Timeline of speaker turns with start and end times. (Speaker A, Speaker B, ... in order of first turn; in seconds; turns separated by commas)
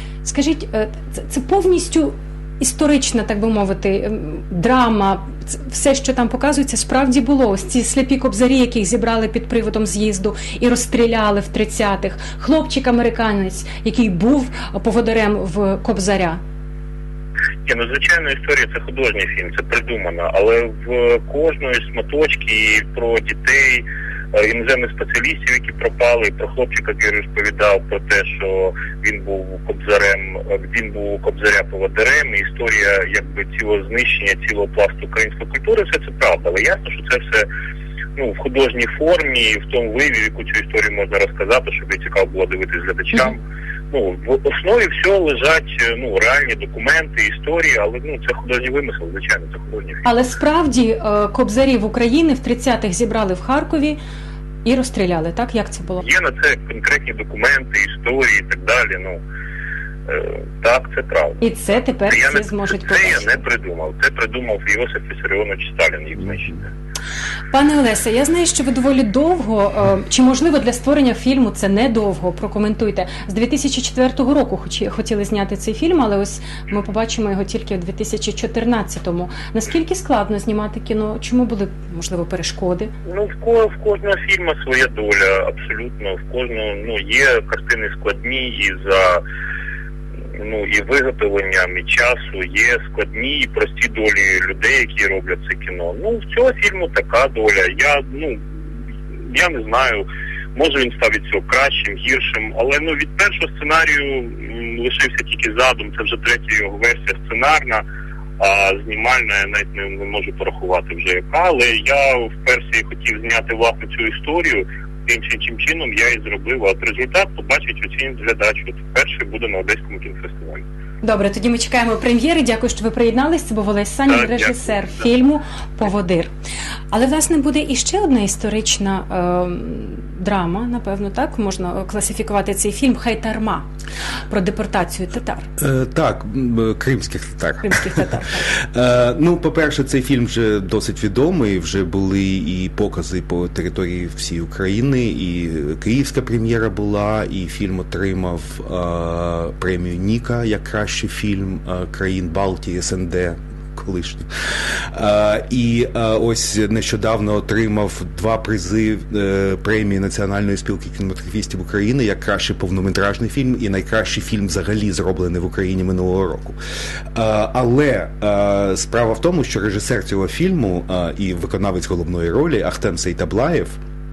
Speaker A: 0.2-16.4, Speaker B: 17.6-37.5, Speaker B: 38.1-43.4, Speaker B: 43.9-50.1, Speaker A: 50.0-54.0, Speaker A: 54.6-56.0, Speaker B: 56.0-59.2, Speaker B: 60.1-66.7, Speaker A: 61.4-63.4, Speaker A: 67.5-82.9, Speaker B: 83.1-89.2, Speaker B: 90.4-98.4, Speaker B: 99.2-107.8, Speaker B: 108.4-120.6, Speaker A: 121.0-126.3, Speaker B: 124.1-125.0, Speaker A: 126.9-133.7, Speaker A: 134.3-135.5, Speaker C: 135.6-166.6, Speaker A: 137.6-138.5, Speaker C: 167.2-173.8